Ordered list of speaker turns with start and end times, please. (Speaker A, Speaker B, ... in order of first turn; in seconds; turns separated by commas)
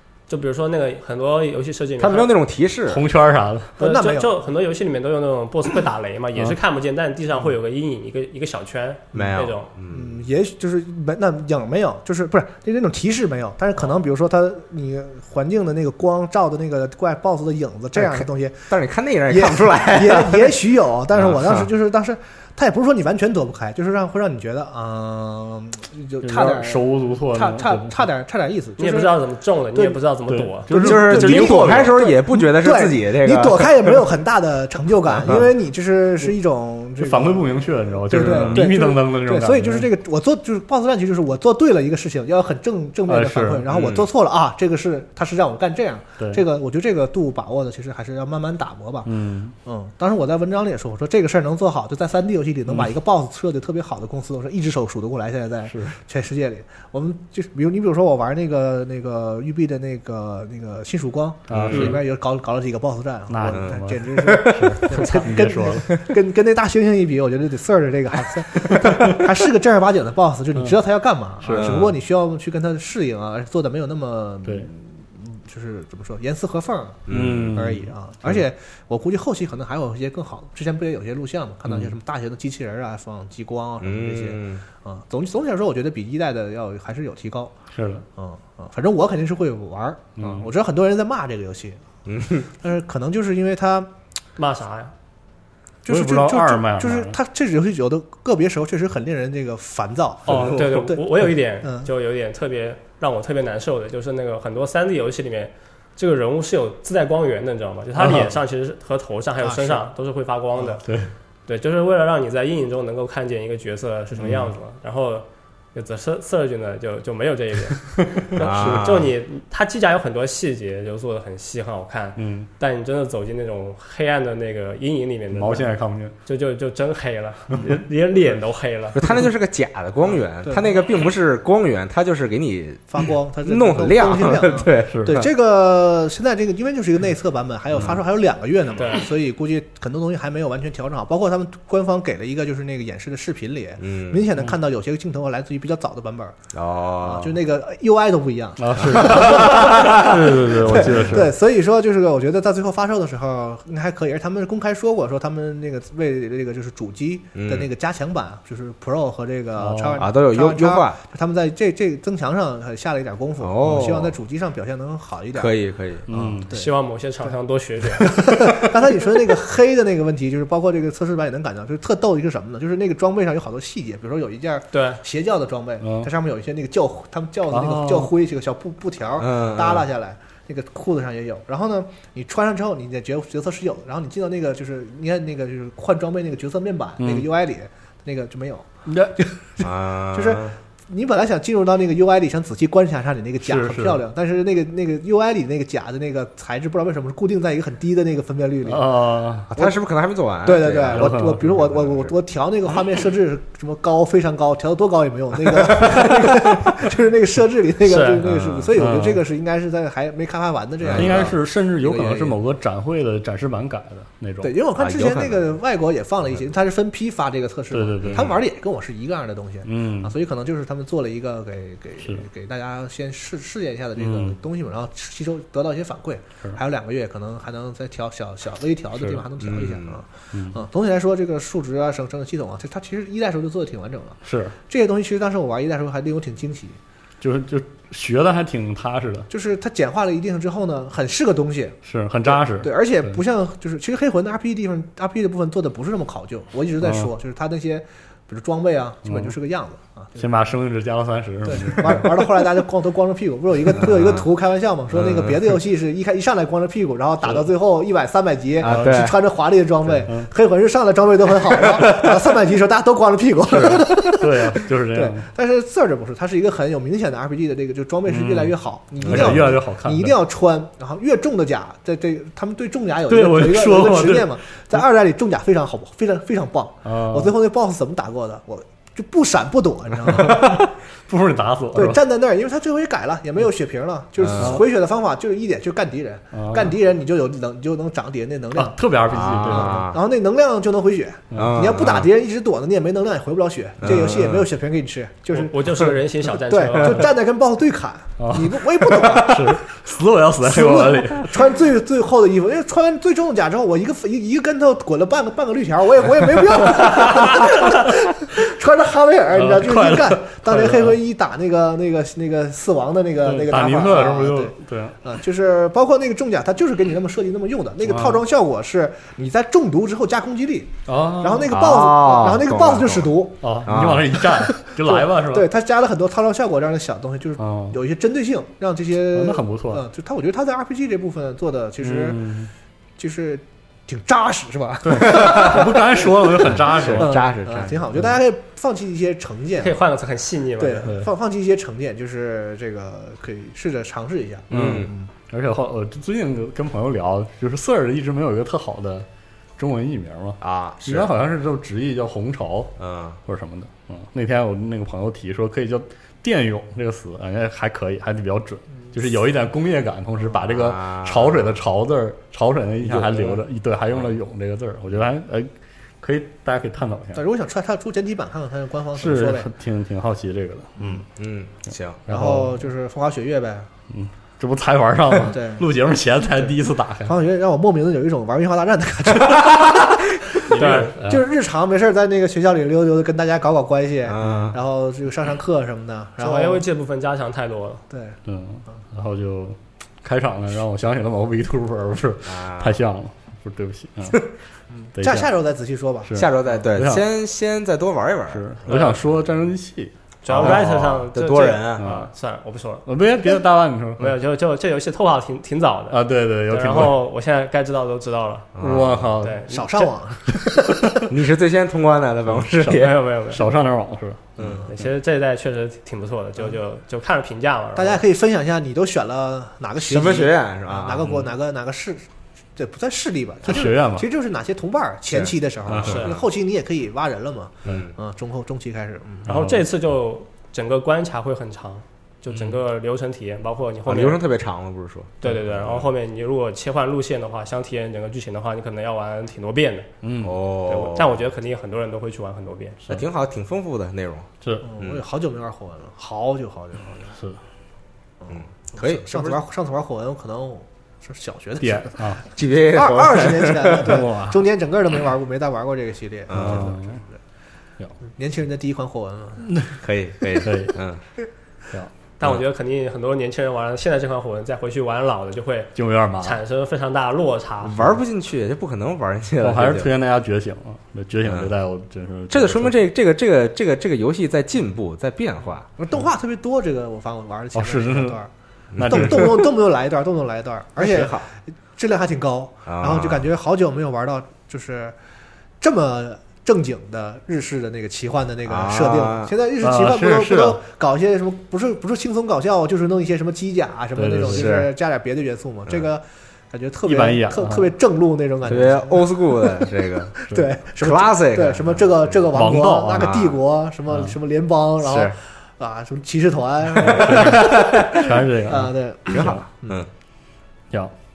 Speaker A: 0.3-2.3, Speaker B: 2.0-3.0, Speaker C: 2.9-3.7, Speaker D: 3.8-4.3, Speaker A: 3.8-9.7, Speaker B: 9.1-10.2, Speaker D: 9.9-18.8, Speaker B: 17.9-20.6, Speaker D: 19.3-29.1, Speaker B: 21.1-21.6, Speaker C: 26.2-28.0, Speaker A: 28.8-30.7, Speaker C: 30.3-31.9, Speaker D: 30.7-49.1, Speaker B: 30.7-34.0, Speaker C: 37.0-39.9, Speaker B: 38.2-38.6, Speaker C: 43.1-43.7, Speaker B: 43.7-44.1, Speaker C: 49.0-49.5, Speaker D: 49.6-87.5, Speaker C: 55.7-56.0, Speaker C: 61.5-62.0, Speaker B: 61.5-62.0, Speaker C: 63.3-65.9, Speaker B: 63.5-65.1, Speaker B: 68.7-69.1, Speaker C: 71.4-71.8, Speaker B: 71.5-71.9, Speaker B: 77.1-77.7, Speaker C: 77.1-77.9, Speaker C: 81.7-81.9, Speaker B: 83.8-84.6, Speaker C: 87.7-88.0, Speaker D: 88.2-91.8, Speaker C: 90.2-90.5, Speaker B: 92.0-92.5, Speaker D: 92.5-93.9, Speaker A: 94.4-94.9, Speaker D: 95.8-101.0, Speaker C: 95.9-97.2, Speaker B: 100.2-100.8, Speaker A: 100.3-110.8, Speaker D: 101.6-101.9, Speaker C: 108.0-108.3, Speaker D: 109.4-109.9, Speaker C: 110.8-111.1, Speaker A: 111.5-125.7, Speaker C: 114.2-114.5, Speaker B: 118.4-119.1, Speaker C: 122.2-122.5, Speaker C: 125.3-126.1, Speaker A: 126.2-129.1, Speaker B: 128.9-135.3, Speaker D: 130.4-130.7, Speaker D: 132.9-146.4, Speaker C: 134.9-135.2, Speaker A: 138.8-139.1, Speaker B: 143.8-144.2, Speaker B: 146.5-147.3, Speaker D: 147.0-165.6, Speaker C: 148.6-151.3, Speaker B: 149.0-150.3, Speaker B: 157.3-157.7, Speaker C: 159.6-160.1, Speaker B: 160.0-161.0, Speaker B: 163.4-164.1, Speaker B: 165.3-166.1, Speaker C: 166.1-166.5, Speaker D: 166.1-166.7, Speaker A: 166.5-168.2, Speaker D: 168.0-199.8, Speaker A: 174.7-175.0, Speaker C: 175.8-176.1, Speaker C: 177.5-178.1, Speaker B: 179.2-179.8, Speaker C: 187.0-187.3, Speaker C: 188.9-189.2, Speaker B: 189.6-190.6, Speaker C: 193.4-194.0, Speaker C: 198.7-199.5, Speaker B: 199.5-202.1, Speaker D: 200.4-212.4, Speaker C: 200.9-201.5, Speaker B: 205.8-206.4, Speaker A: 207.9-208.2, Speaker B: 208.2-208.7, Speaker C: 208.8-209.2, Speaker B: 210.8-211.3, Speaker C: 210.9-214.5, Speaker D: 214.4-236.8, Speaker B: 214.8-215.5, Speaker C: 217.7-218.3, Speaker B: 218.0-218.4, Speaker C: 219.7-220.1, Speaker C: 224.0-224.4, Speaker C: 229.0-229.2, Speaker B: 229.4-230.0, Speaker C: 230.3-230.6, Speaker C: 234.2-234.6, Speaker C: 237.2-239.3, Speaker D: 239.3-250.3, Speaker C: 241.8-243.2, Speaker C: 246.8-247.1, Speaker C: 249.1-249.3, Speaker C: 250.2-252.2, Speaker D: 251.4-280.7, Speaker B: 253.8-254.2, Speaker B: 254.9-255.4, Speaker B: 258.6-259.1, Speaker C: 258.6-259.1, Speaker C: 263.5-265.3, Speaker C: 268.1-270.1, Speaker B: 269.0-269.5, Speaker C: 273.1-274.3, Speaker C: 276.8-277.3, Speaker C: 280.1-282.0, Speaker D: 281.7-299.6, Speaker B: 284.2-284.6, Speaker C: 284.4-284.6, Speaker C: 286.3-286.7, Speaker C: 288.5-289.9, Speaker B: 289.1-290.0, Speaker C: 291.3-291.6, Speaker B: 291.3-292.1, Speaker B: 293.8-294.5, Speaker A: 295.3-297.1, Speaker C: 298.2-301.3, Speaker D: 300.4-323.6, Speaker C: 306.8-308.0, Speaker C: 309.3-311.0, Speaker C: 313.2-315.0, Speaker C: 317.9-318.2, Speaker C: 320.9-321.5, Speaker B: 321.5-323.1, Speaker C: 323.4-325.5, Speaker B: 323.6-324.2, Speaker D: 324.1-332.2, Speaker C: 327.4-327.8, Speaker C: 329.1-329.8, Speaker C: 331.8-332.5, Speaker D: 333.0-339.8, Speaker C: 334.8-337.2, Speaker B: 335.0-335.6, Speaker B: 336.4-337.9, Speaker A: 339.6-340.9, Speaker D: 340.6-345.1, Speaker B: 344.5-344.9, Speaker C: 344.5-349.1, Speaker C: 349.6-352.7, Speaker B: 350.4-351.1, Speaker B: 352.8-353.2, Speaker C: 353.2-365.5, Speaker B: 360.3-361.5, Speaker B: 362.8-363.3, Speaker C: 366.0-367.2, Speaker D: 367.1-369.5, Speaker C: 369.0-371.0, Speaker B: 371.1-372.0, Speaker C: 372.1-372.6, Speaker D: 372.1-373.7, Speaker C: 373.9-377.1, Speaker D: 375.2-375.7, Speaker D: 377.1-386.6, Speaker C: 380.4-381.2, Speaker A: 380.5-380.9, Speaker B: 384.0-384.6, Speaker A: 386.2-387.8, Speaker D: 387.9-388.2, Speaker C: 388.3-394.2, Speaker B: 392.2-392.8, Speaker D: 394.7-396.1, Speaker C: 395.0-395.3, Speaker C: 396.1-397.0, Speaker B: 396.1-399.0, Speaker C: 398.3-400.7, Speaker A: 398.7-399.0, Speaker A: 400.2-402.9, Speaker B: 400.3-401.9, Speaker C: 401.8-402.1, Speaker C: 402.9-404.2, Speaker A: 404.0-408.6, Speaker C: 405.9-407.0, Speaker B: 408.5-409.1, Speaker C: 408.6-411.0, Speaker A: 409.2-409.6, Speaker D: 409.5-411.0, Speaker B: 411.1-412.9, Speaker C: 412.6-414.3, Speaker A: 412.6-413.5, Speaker B: 414.4-414.7, Speaker A: 414.7-418.0, Speaker D: 417.8-429.3, Speaker B: 419.8-421.2, Speaker C: 423.4-424.1, Speaker B: 425.1-426.1, Speaker C: 425.7-426.0, Speaker A: 425.8-426.2, Speaker B: 427.6-427.9, Speaker C: 429.2-429.6, Speaker A: 429.2-434.2, Speaker B: 433.9-435.9, Speaker A: 435.2-439.9, Speaker C: 440.0-440.4, Speaker B: 440.2-441.2, Speaker A: 440.6-442.8, Speaker B: 442.9-444.3, Speaker D: 444.6-447.2, Speaker D: 448.2-457.2, Speaker B: 448.3-449.4, Speaker C: 451.6-452.2, Speaker B: 452.3-454.0, Speaker C: 453.8-454.4, Speaker B: 456.3-456.7, Speaker C: 456.3-457.0, Speaker D: 458.1-459.5, Speaker B: 459.8-461.0, Speaker C: 460.4-460.8, Speaker A: 462.2-467.8, Speaker C: 465.7-466.4, Speaker B: 467.6-469.9, Speaker C: 469.4-472.7, Speaker B: 471.2-471.5, Speaker B: 472.3-475.7, Speaker D: 475.8-478.3, Speaker C: 477.5-478.2, Speaker B: 478.7-479.4, Speaker C: 478.8-479.5, Speaker D: 478.8-484.9, Speaker B: 480.8-481.3, Speaker B: 482.7-483.3, Speaker D: 485.6-509.8, Speaker B: 488.4-489.3, Speaker C: 489.6-490.6, Speaker C: 493.9-494.5, Speaker B: 494.2-494.7, Speaker C: 496.9-497.7, Speaker B: 498.4-500.1, Speaker B: 500.8-502.2, Speaker C: 502.3-503.1, Speaker B: 503.0-503.4, Speaker B: 504.8-505.1, Speaker B: 506.8-508.0, Speaker C: 506.8-509.4, Speaker B: 509.1-509.9